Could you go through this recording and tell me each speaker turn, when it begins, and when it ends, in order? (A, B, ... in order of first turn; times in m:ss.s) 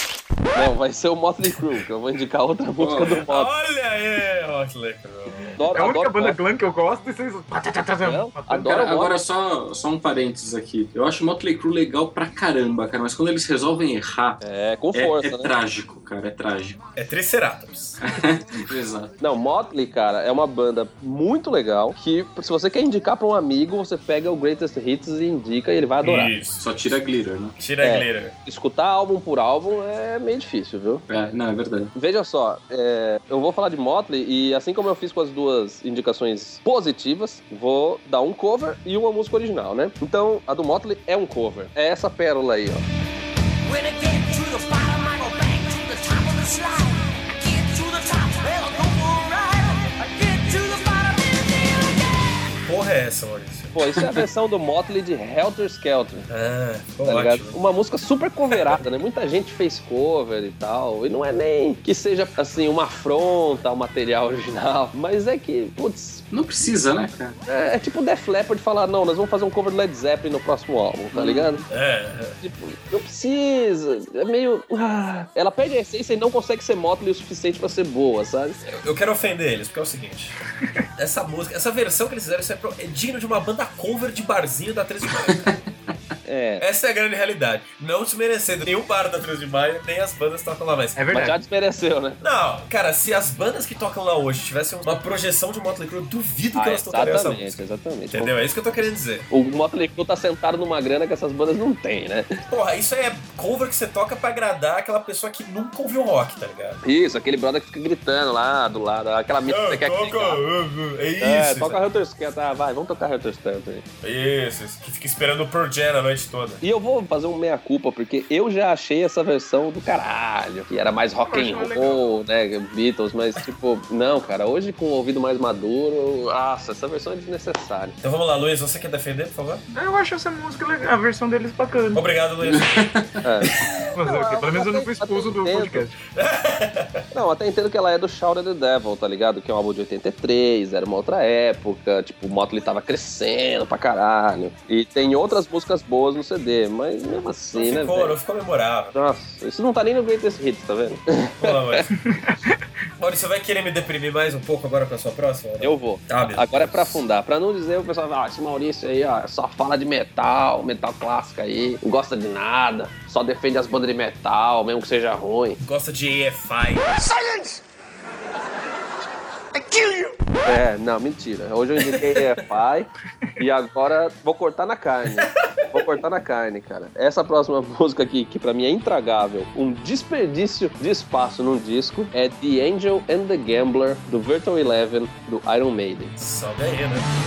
0:00.5-0:03.5 A
0:02.8-0:03.2 B
0:03.3-0:05.6 C
0:05.6-0:06.4 A
0:05.7-0:08.8 D
0:08.0-0:09.1 A
0:08.6-0:14.4 B
0:14.4-0:15.5 A
0:14.9-0:16.9 B
0:17.0-0:18.0 C
0:18.0-0:19.1 B
0:19.2-0:26.3 A
0:26.0-0:26.6 C
0:26.6-0:27.6 B
0:27.6-0:28.3 C
0:27.8-0:31.0 A
0:31.1-0:31.9 B
0:32.0-0:42.8 A
0:43.6-0:52.4 E
0:52.7-0:54.0 C
0:53.8-0:56.3 A
0:56.3-0:57.6 C
0:57.0-1:06.3 A
1:06.3-1:07.4 B
1:07.5-1:11.6 A
1:11.1-1:11.6 B
1:11.7-1:12.4 C
1:12.4-1:18.6 A
1:18.7-1:20.4 C
1:21.0-1:25.6 C
1:26.2-1:26.6 A
1:26.6-1:31.1 C
1:31.0-1:31.4 D
1:31.1-1:32.2 A
1:32.2-1:37.6 C
1:36.6-1:38.3 A
1:38.1-1:39.3 C
1:39.3-1:42.4 A
1:42.5-1:46.8 C
1:46.8-1:50.4 A
1:49.5-1:51.8 C
1:51.2-1:53.8 A
1:54.0-1:56.6 C
1:56.6-2:08.0 A
2:01.2-2:02.2 D
2:08.0-2:09.6 C
2:09.7-2:12.1 D
2:11.9-2:13.7 C
2:12.4-2:13.2 B
2:13.2-2:15.8 A
2:14.0-2:16.0 D
2:16.1-2:17.1 C
2:17.1-2:28.2 A
2:27.6-2:29.0 C
2:28.9-2:31.9 A
2:31.4-2:31.9 C
2:32.1-2:32.6 D
2:33.0-2:37.0 C
2:35.6-2:45.6 A
2:45.6-2:47.4 C
2:50.5-3:06.1 A
2:51.9-2:52.2 C
3:06.2-3:07.1 C